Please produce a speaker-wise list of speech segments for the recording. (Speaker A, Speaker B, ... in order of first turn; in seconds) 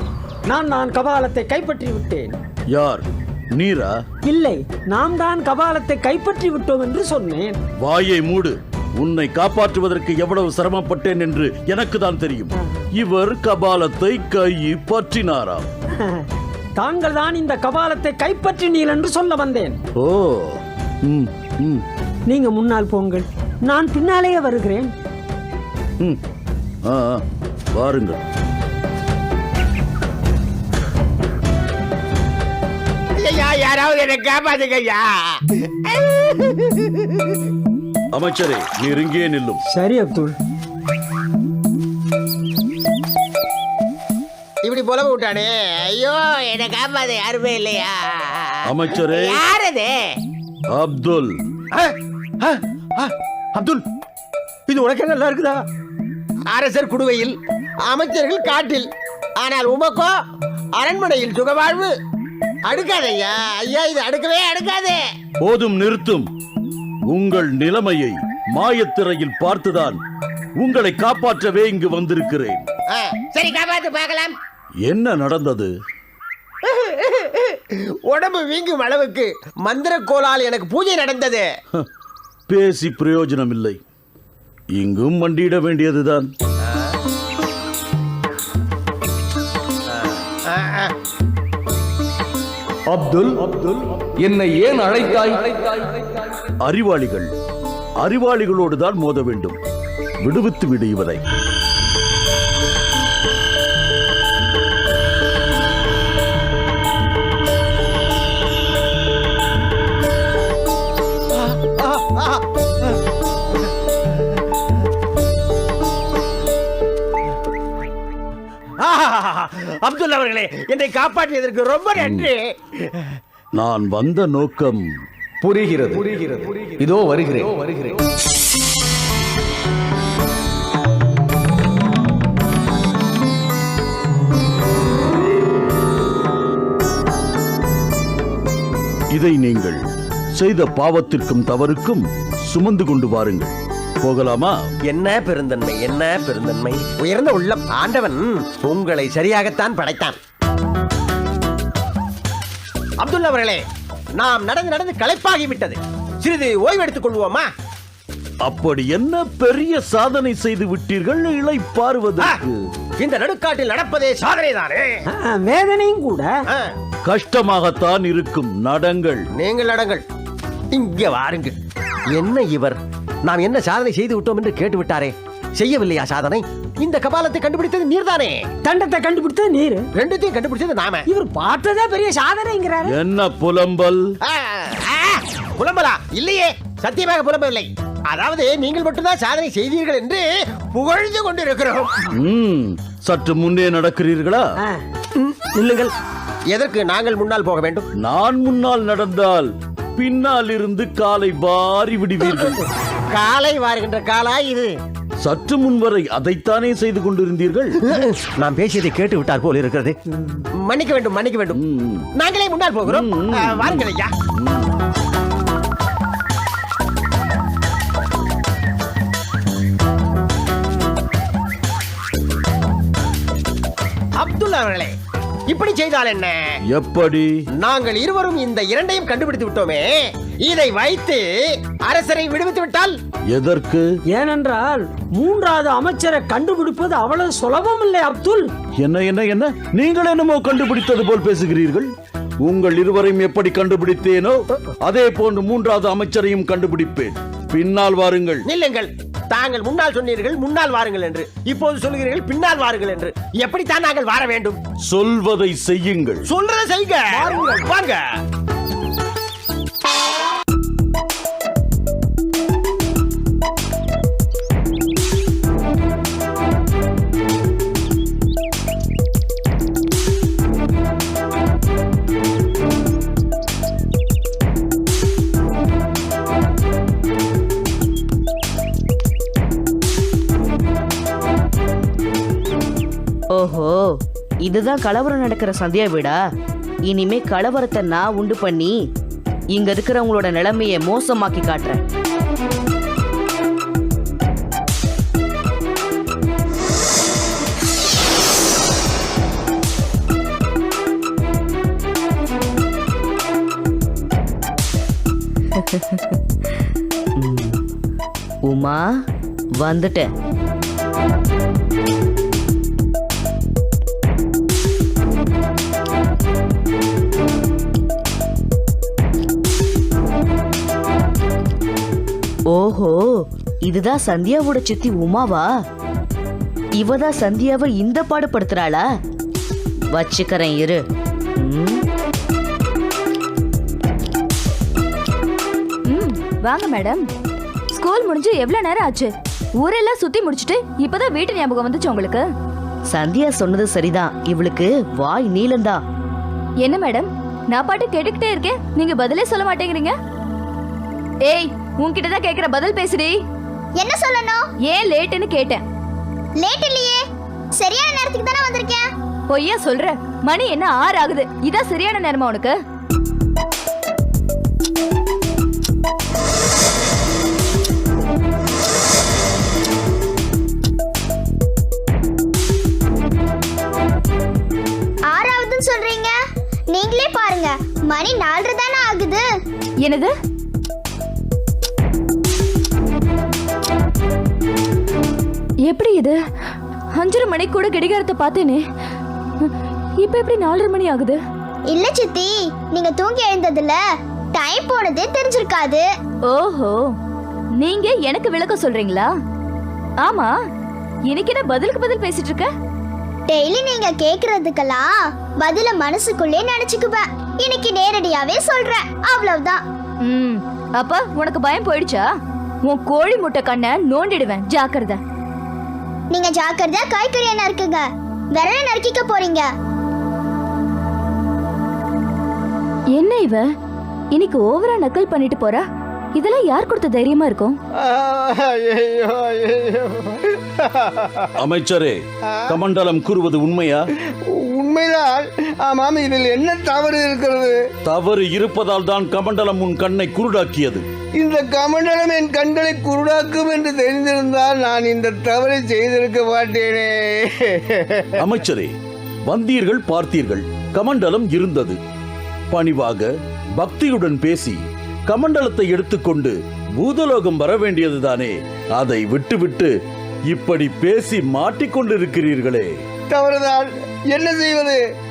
Speaker A: 0.5-2.4, 4.3-7.6, 16.8-19.8, 22.3-24.9, 39.7-40.3, 165.2-166.3, 178.6-179.8, 181.1-182.9, 234.1-238.5, 257.2-257.6
Speaker B: 2.7-4.0, 7.8-15.7, 20.0-21.8, 26.8-27.2, 27.7-28.2, 38.1-39.6, 48.6-49.4, 50.7-51.3, 65.4-66.3, 67.1-70.0, 70.6-72.7, 74.8-75.7, 82.5-83.8, 84.8-86.3, 96.6-97.3, 98.0-99.6, 100.2-101.2, 121.9-122.3, 123.6-124.8, 139.1-139.8, 140.4-144.6, 158.4-162.6, 167.0-169.2, 182.8-184.0, 192.2-194.6, 198.0-202.6, 205.2-207.7, 211.5-212.1, 212.8-214.7, 226.7-227.3, 233.3-233.8, 238.8-241.9, 242.4-248.5, 254.9-256.3, 431.4-433.8, 437.9-440.8, 448.2-448.7, 449.3-451.8, 452.5-459.7, 460.3-462.7
Speaker C: 33.2-35.1, 35.9-36.7, 44.6-50.0, 51.7-53.8, 54.7-55.6, 56.5-60.1, 60.8-61.9, 62.6-65.0, 72.9-74.3, 76.7-81.5, 89.9-90.9, 111.7-112.4, 118.8-122.5, 144.8-150.2, 153.0-153.6, 154.1-157.5, 163.0-165.0, 169.3-170.0, 170.7-171.6, 172.1-178.4, 180.0-181.0, 184.2-192.0, 195.2-195.9, 196.5-197.8, 203.1-204.7, 207.9-209.9, 210.5-211.6, 212.1-214.1, 224.2-224.9, 225.5-226.5, 227.6-229.9, 230.4-231.3, 231.8-233.0, 248.4-254.6, 256.3-258.0
Speaker D: 92.9-93.3, 94.2-95.6, 125.6-126.1, 127.0-127.5
Speaker E: 283.3-286.2, 286.9-288.8, 289.5-291.8, 305.7-306.1, 307.2-307.6, 308.4-308.9, 309.6-310.1, 322.5-325.5, 326.8-328.8, 329.9-330.8, 331.4-331.8, 342.9-345.8
Speaker F: 335.9-337.0, 337.7-342.2, 346.6-349.9, 351.2-353.2, 354.7-355.6, 359.3-362.6, 379.8-380.1, 385.6-386.2, 386.9-388.6, 389.4-391.2, 396.3-396.9, 397.6-399.1, 400.0-400.3, 401.1-402.5, 410.0-412.1, 412.6-415.0, 422.9-423.4, 424.1-427.6
Speaker G: 353.8-354.4, 356.4-357.0, 357.6-358.8, 375.1-376.1, 376.7-379.2, 391.7-393.8, 394.3-395.8, 403.3-409.6, 416.1-419.5
Speaker H: 427.8-431.3, 432.3-432.6, 434.3-437.6, 441.2-448.2, 463.1-464.8